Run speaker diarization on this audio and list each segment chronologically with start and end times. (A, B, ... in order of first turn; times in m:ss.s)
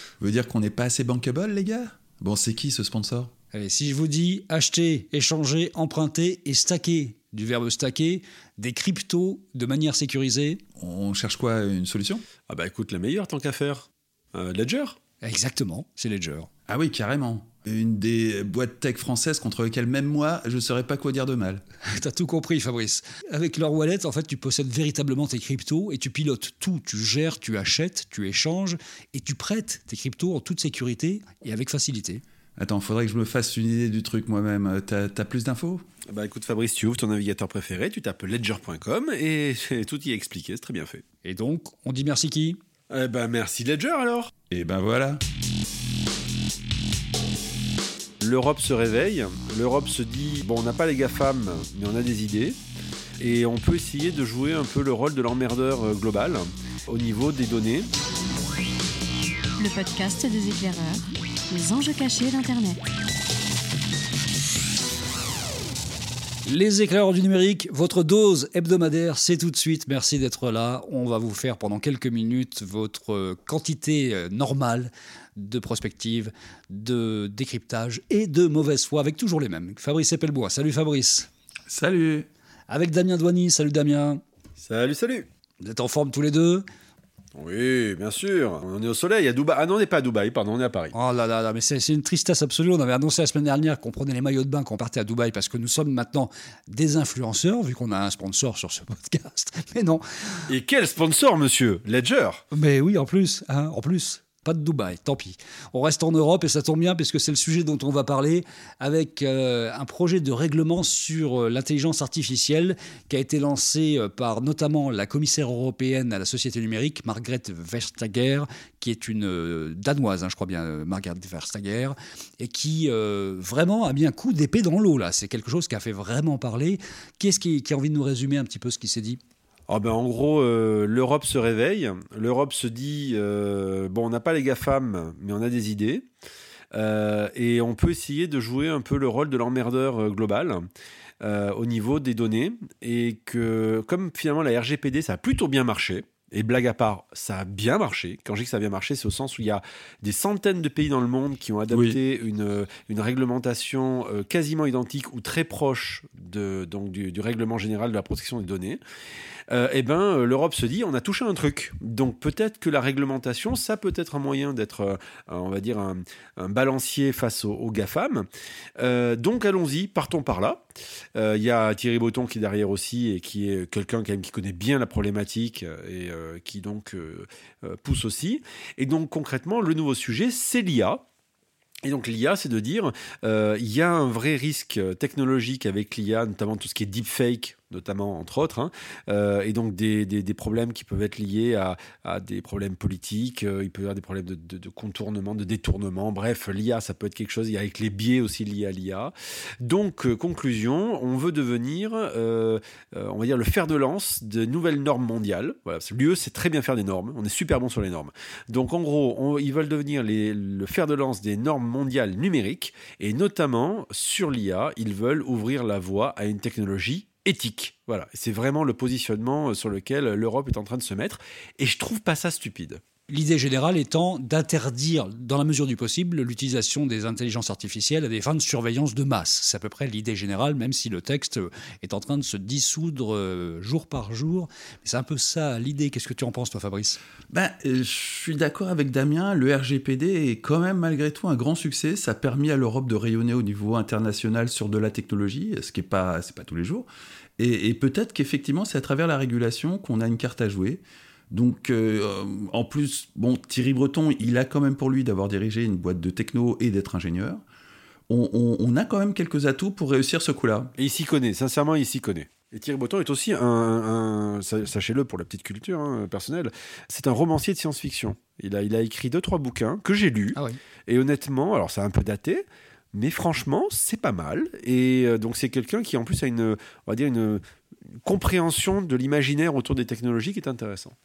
0:00.2-0:03.3 A
0:03.5-0:10.6 B
0:10.8-0:12.2 A
0:12.5-0:15.0 C
0:15.2-0:16.5 B
0:16.7-0:21.6 A
0:21.9-0:32.2 B
0:32.6-0:35.8 A
0:36.1-0:41.0 C
0:41.2-0:42.6 B
0:42.9-0:44.3 C
0:44.5-0:45.2 A
0:48.2-0:52.6 C
0:53.2-0:57.9 C
0:59.6-1:02.9 D
1:06.5-1:21.3 B
1:21.7-1:22.3 A
1:22.7-1:24.2 B
1:24.6-1:25.3 C
1:25.6-1:26.6 B
1:27.4-1:30.9 C
1:30.9-1:40.5 B
1:40.5-1:42.4 C
1:42.5-2:09.2 B
2:09.7-2:16.1 C
2:16.7-2:20.7 C
2:21.2-2:38.8 C
2:31.7-2:32.0 A
2:39.5-2:50.6 C
2:51.2-3:01.0 C
3:01.8-3:42.8 C
3:43.1-3:57.0 B
3:57.3-4:06.9 A
4:07.4-4:17.4 A
4:18.1-4:20.7 A
4:20.8-4:37.4 C
4:38.0-4:41.0 C